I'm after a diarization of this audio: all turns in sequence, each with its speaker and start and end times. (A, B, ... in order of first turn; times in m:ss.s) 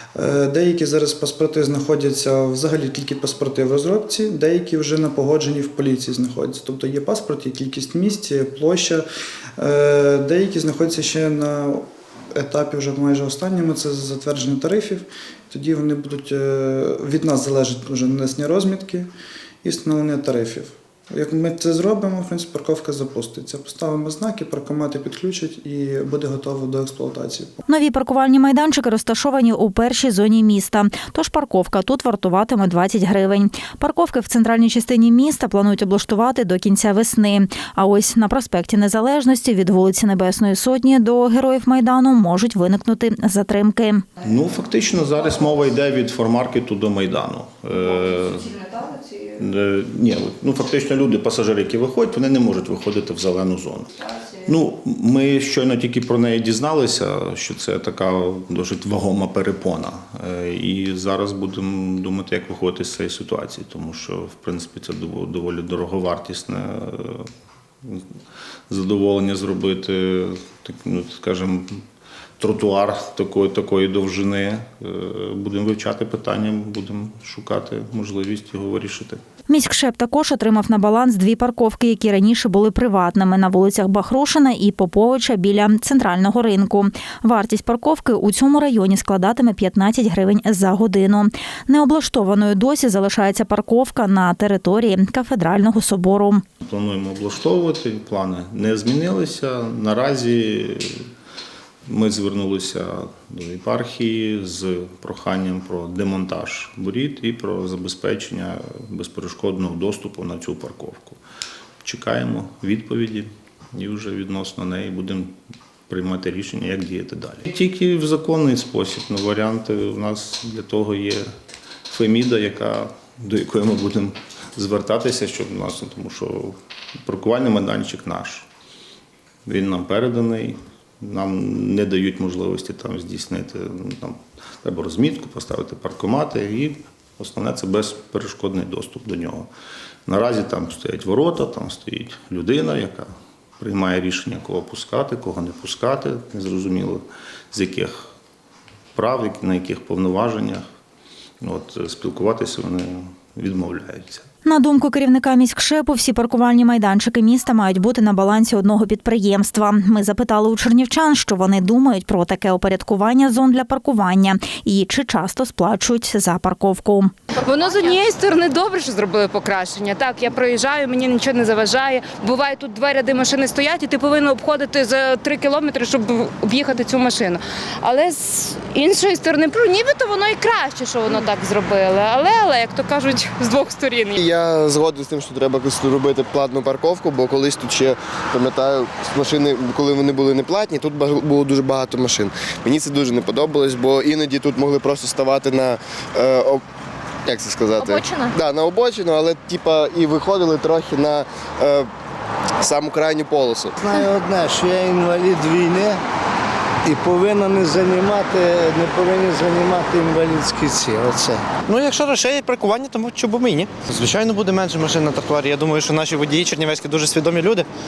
0:00.2-0:09.0 A
0:09.6-0:11.8 A
0:12.3-0:19.1 A
0:19.6-0:27.6 A
0:27.7-0:44.0 B
0:44.2-1:07.3 C
1:08.7-1:11.8 C
1:12.4-1:19.2 C
1:19.5-1:36.4 B
1:36.6-1:41.0 C
1:41.9-1:51.2 C
1:51.8-1:55.3 C
1:55.9-2:01.2 C
2:01.9-2:08.5 C
2:09.4-2:19.5 C
2:20.1-2:28.1 C
2:28.9-2:30.6 C
2:31.4-2:34.2 C
2:34.4-2:47.1 B
2:47.4-3:04.2 D
3:04.2-3:16.6 E
3:17.2-3:21.9 E
3:22.6-3:23.8 E
3:23.8-3:26.0 F
3:26.8-3:31.4 F
3:31.7-3:37.6 G